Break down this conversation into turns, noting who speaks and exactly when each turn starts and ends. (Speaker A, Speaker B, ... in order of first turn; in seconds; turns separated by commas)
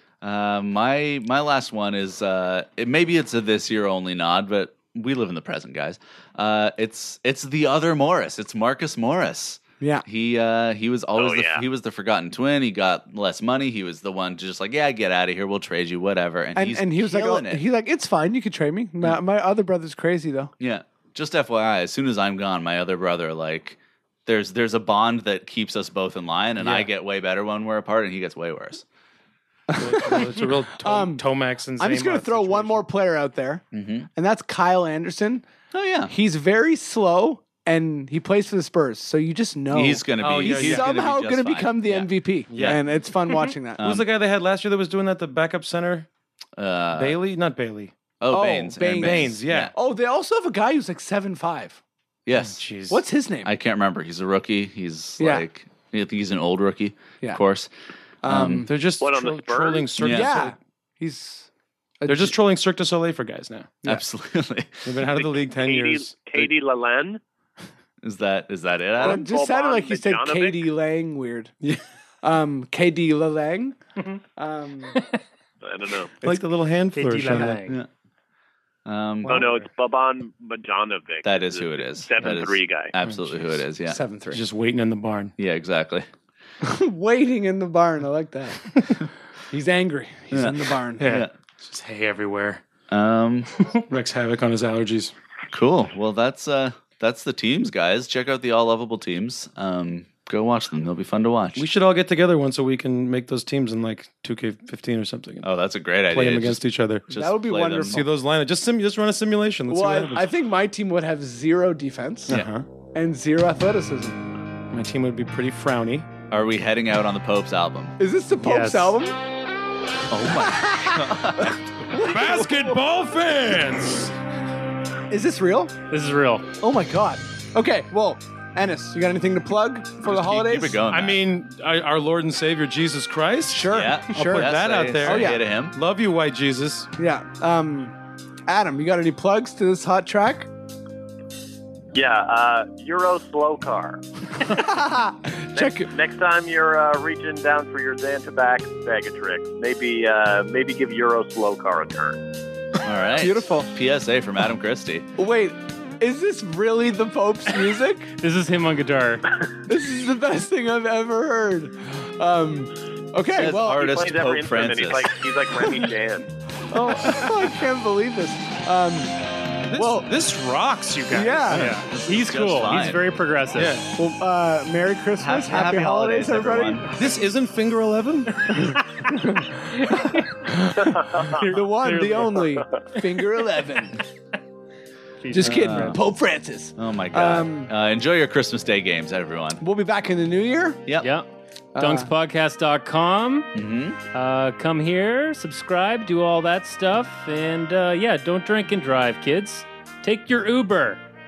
Speaker A: 0.2-17.6, Speaker B: 9.8-10.1, Speaker C: 11.2-11.6, Speaker B: 16.6-20.5, Speaker A: 20.6-28.9, Speaker D: 26.6-26.9, Speaker B: 29.7-31.2, Speaker D: 29.7-32.9, Speaker B: 31.8-33.6, Speaker A: 33.7-34.1, Speaker B: 34.1-35.5, Speaker A: 35.7-36.1, Speaker B: 36.1-43.8, Speaker A: 39.7-42.8, Speaker D: 40.2-40.9, Speaker D: 42.5-42.8, Speaker A: 43.8-44.1, Speaker D: 43.8-46.1, Speaker A: 46.6-47.2, Speaker D: 46.9-48.0, Speaker A: 48.2-49.7, Speaker B: 48.3-51.8, Speaker D: 49.0-49.7, Speaker A: 52.3-52.6, Speaker D: 52.4-53.0, Speaker B: 52.9-53.5, Speaker A: 53.5-57.7, Speaker B: 55.2-55.5, Speaker B: 58.2-58.7, Speaker A: 58.3-58.7, Speaker D: 58.6-60.5, Speaker C: 59.0-59.9, Speaker A: 60.0-60.3, Speaker B: 60.0-61.5, Speaker B: 62.0-62.4, Speaker D: 62.1-63.8, Speaker A: 63.9-65.0, Speaker D: 64.8-66.1, Speaker C: 65.1-67.2, Speaker A: 68.0-69.3, Speaker B: 69.0-71.6, Speaker C: 69.0-70.7, Speaker B: 72.2-73.8, Speaker B: 74.4-75.0, Speaker C: 75.6-76.1, Speaker D: 76.2-77.6, Speaker E: 76.9-77.8, Speaker A: 78.8-79.5, Speaker C: 79.3-82.9, Speaker D: 79.3-79.7, Speaker A: 81.2-84.0, Speaker D: 83.0-83.4, Speaker B: 83.9-84.4, Speaker D: 84.3-85.3, Speaker A: 85.4-86.1, Speaker B: 86.6-88.7, Speaker B: 89.5-91.1, Speaker A: 90.3-91.3, Speaker D: 91.0-92.6, Speaker A: 92.9-93.5, Speaker D: 93.7-95.1, Speaker A: 95.5-101.7, Speaker D: 101.6-105.5, Speaker A: 105.4-108.1, Speaker D: 106.1-107.1, Speaker B: 107.1-108.1, Speaker D: 107.9-110.3, Speaker B: 109.7-112.4, Speaker D: 112.3-112.7, Speaker B: 112.9-114.2, Speaker D: 114.7-116.1, Speaker A: 116.3-118.0, Speaker B: 118.0-119.2, Speaker E: 118.4-119.0, Speaker A: 120.1-121.6, Speaker B: 120.3-122.8, Speaker D: 121.9-124.2, Speaker B: 125.1-125.8, Speaker E: 125.9-126.5, Speaker B: 126.6-130.8, Speaker A: 130.0-131.2, Speaker D: 130.9-136.9, Speaker B: 133.5-135.4, Speaker A: 133.7-135.8, Speaker B: 137.0-140.5, Speaker C: 141.9-144.0, Speaker B: 144.4-145.9, Speaker C: 145.6-152.2, Speaker A: 152.8-155.1, Speaker B: 153.2-153.7, Speaker B: 155.2-158.1, Speaker E: 158.2-159.4, Speaker B: 159.7-163.9, Speaker A: 163.3-165.3, Speaker C: 163.7-166.3, Speaker B: 166.7-169.2, Speaker A: 167.1-167.4, Speaker D: 169.7-171.6, Speaker B: 169.7-170.1, Speaker B: 171.1-171.8, Speaker E: 171.5-173.8, Speaker A: 171.5-173.0, Speaker D: 173.6-173.9, Speaker B: 173.9-176.9, Speaker A: 175.2-176.9, Speaker D: 177.0-178.7, Speaker B: 178.5-184.0, Speaker E: 179.8-182.6, Speaker E: 185.2-186.0, Speaker B: 185.3-187.7, Speaker A: 185.4-186.0, Speaker A: 186.8-189.6, Speaker B: 189.6-190.8, Speaker E: 191.0-193.5, Speaker B: 191.8-192.1, Speaker A: 193.6-194.0, Speaker E: 194.1-201.0